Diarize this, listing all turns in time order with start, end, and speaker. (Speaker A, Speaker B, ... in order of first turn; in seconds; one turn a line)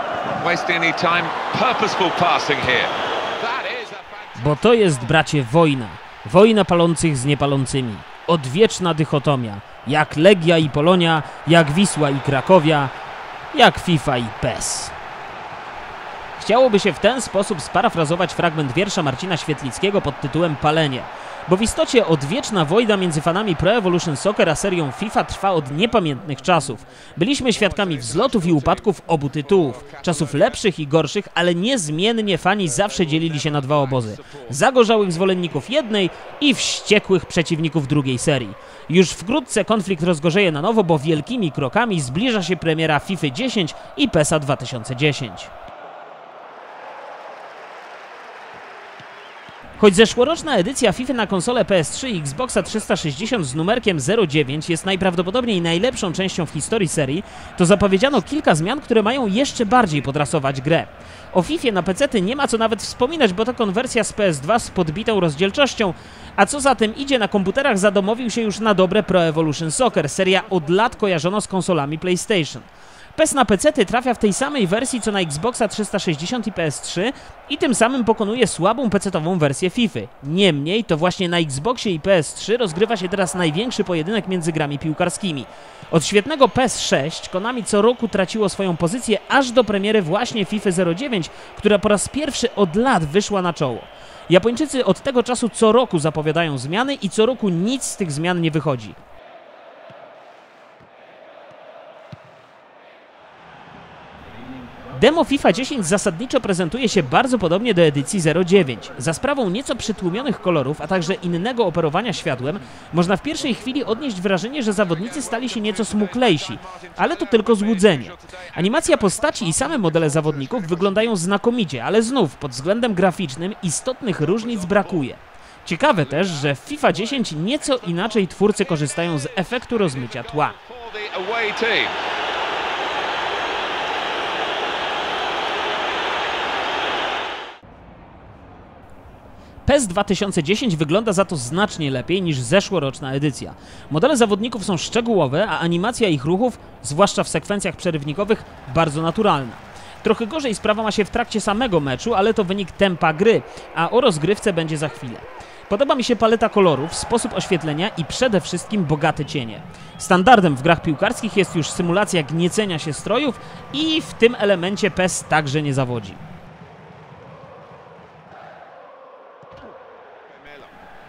Speaker A: 0.4-5.1
Speaker B: 4.4-12.9
Speaker B: 13.5-14.9
Speaker B: 16.4-45.5
Speaker A: 27.5-30.6
Speaker A: 32.7-34.6
Speaker B: 49.8-99.0
Speaker B: 104.9-130.6
Speaker A: 115.0-121.2
Speaker A: 124.2-125.1
Speaker A: 126.0-131.9
Speaker B: 139.7-166.2
Speaker A: 170.3-170.7